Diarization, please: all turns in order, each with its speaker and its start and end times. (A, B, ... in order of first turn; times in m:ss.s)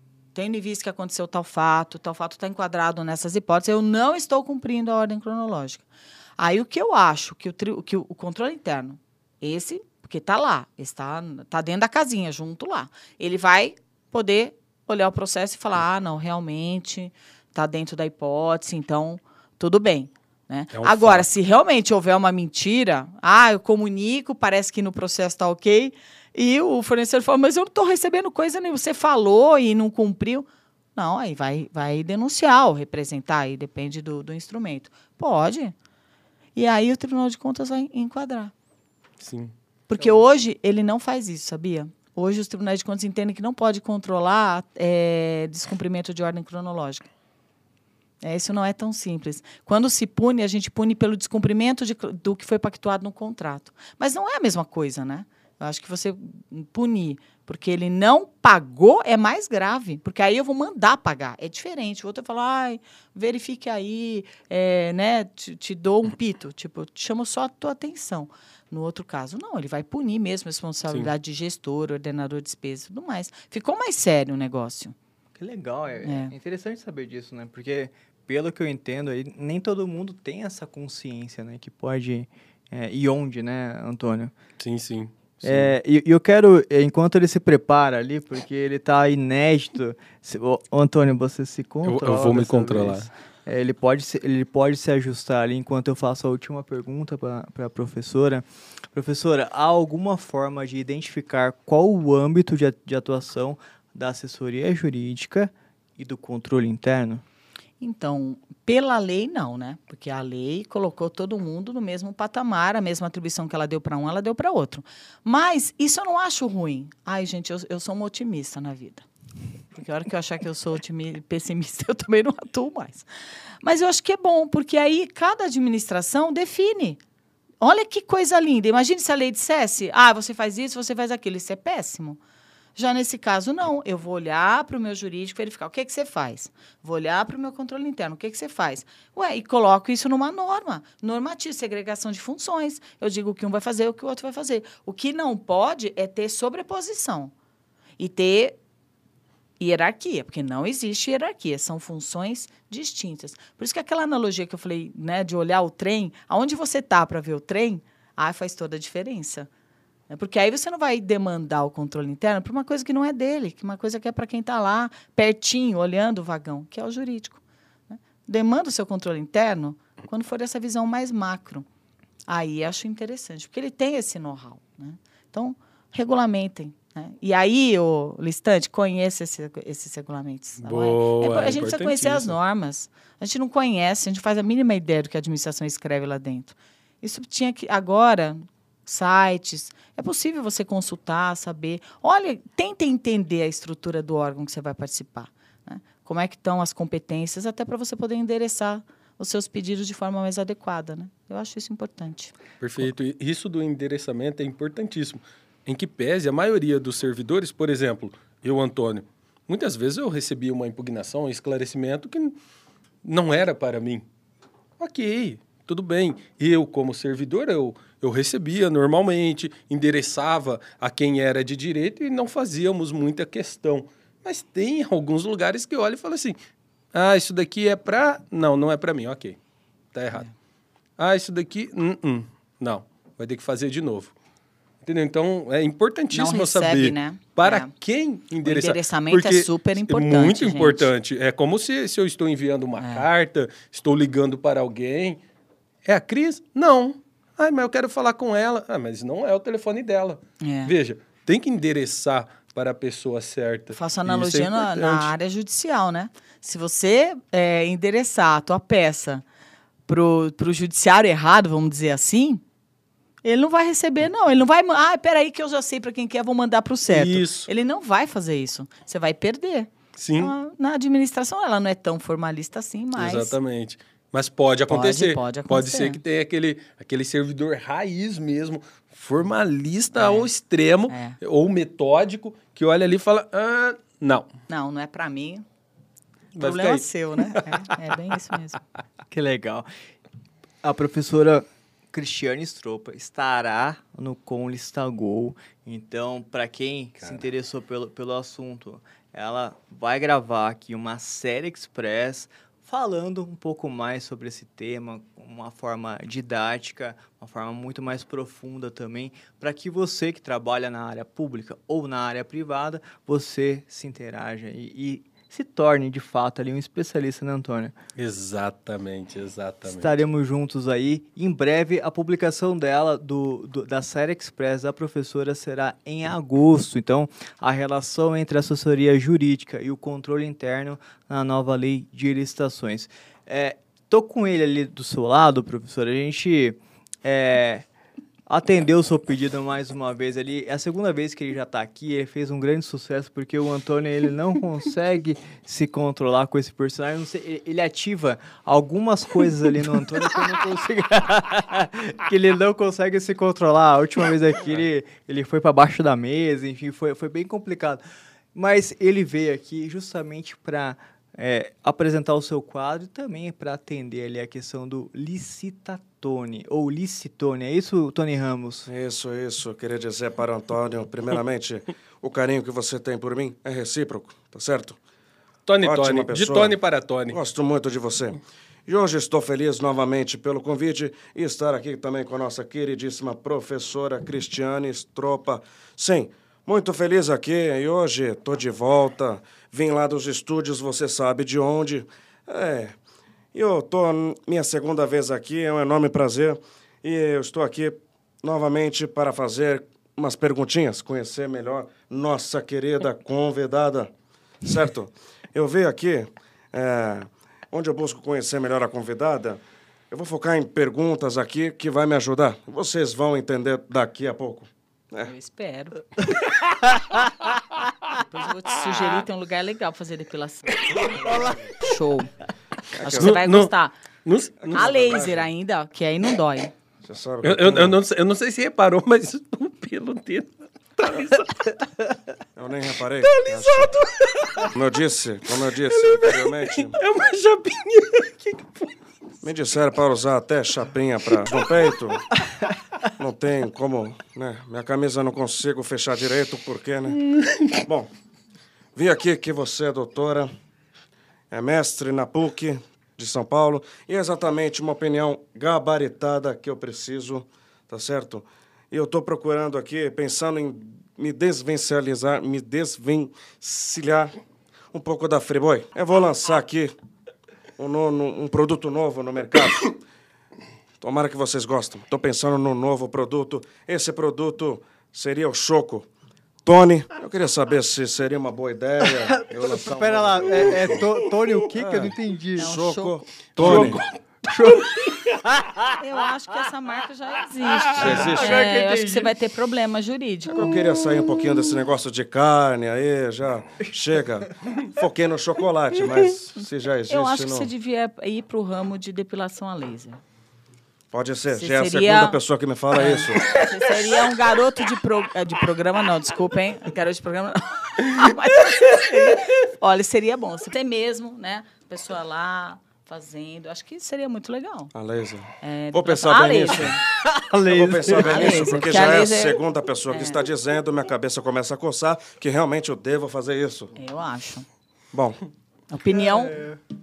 0:00.3-0:05.8 A
0:06.4-0:35.7 A
0:20.7-0:21.3 B
0:36.6-0:38.5 A
0:39.2-0:39.5 B
0:39.9-0:47.1 A
0:48.2-1:14.9 A
1:15.4-1:24.3 C
1:16.0-1:16.3 A
1:24.6-1:25.7 B
1:25.4-1:47.2 C
1:31.8-1:33.1 B
1:47.8-1:59.0 A
1:59.7-2:03.0 A
2:03.6-2:07.0 A
2:07.6-2:12.2 A
2:12.8-2:27.3 A
2:28.0-2:28.6 A
2:29.6-2:39.5 A
2:40.1-2:51.6 A
2:52.3-3:22.3 A
3:00.6-3:02.4 B
3:22.6-3:32.4 B
3:33.0-3:34.0 B
3:34.8-3:46.4 B
3:46.9-3:49.4 B
3:49.9-3:50.3 B
3:51.0-3:54.1 B
3:54.8-4:05.2 B
3:56.1-3:57.7 A
3:58.4-4:00.9 A
4:02.8-4:03.0 A
4:05.8-4:15.1 B
4:10.4-4:10.7 A
4:13.7-4:19.2 A
4:19.9-4:22.4 A
4:23.2-4:33.3 A
4:26.9-4:27.5 B
4:30.0-4:30.3 B
4:33.0-4:44.3 B
4:34.7-4:36.0 A
4:39.9-4:40.3 A
4:40.9-4:41.2 A
4:44.5-4:45.4 A
4:46.3-4:47.4 B
4:46.4-4:48.6 A
4:49.1-4:49.7 C
4:50.6-5:17.7 C
5:18.0-5:20.0 B
5:19.6-5:37.6 C
5:38.3-5:57.8 C
5:58.3-6:08.7 C
6:08.7-6:14.8 D
6:15.4-6:17.2 B
6:15.6-6:16.6 D
6:17.1-6:32.8 D
6:33.3-6:43.9 D
6:44.4-6:55.1 D
6:55.0-6:55.8 A
6:57.9-7:00.7 A
7:01.6-7:02.1 A
7:02.7-7:03.2 D
7:02.8-7:03.7 A
7:02.9-7:03.5 B
7:04.0-7:05.1 B
7:04.5-7:05.2 D
7:04.5-7:06.5 A
7:06.8-7:07.8 D
7:07.2-7:11.6 B
7:12.4-7:13.7 D
7:13.0-7:14.5 B
7:14.5-7:16.8 D
7:15.6-7:18.7 B
7:19.2-7:22.0 D
7:23.0-7:27.0 D
7:26.9-7:27.6 B
7:28.7-7:30.3 D
7:31.3-7:44.1 D
7:44.7-7:46.7 D
7:47.6-7:49.8 D
7:50.8-7:55.9 D
7:56.4-8:00.8 D
7:58.9-8:02.5 C
8:01.5-8:03.8 D
8:02.4-8:03.0 A
8:03.4-8:04.9 B
8:03.4-8:05.7 C
8:05.7-8:10.5 A
8:07.8-8:08.4 D
8:07.8-8:08.1 B
8:07.8-8:09.2 C
8:10.3-8:17.5 D
8:16.9-8:20.0 A
8:20.9-8:23.4 D
8:21.3-8:22.2 A
8:22.7-8:34.7 A
8:34.7-8:36.8 D
8:35.4-8:36.8 A
8:37.0-8:38.9 C
8:37.4-8:43.7 D
8:38.0-8:40.2 A
8:43.7-8:44.4 A
8:44.9-8:45.2 D
8:45.7-8:46.5 A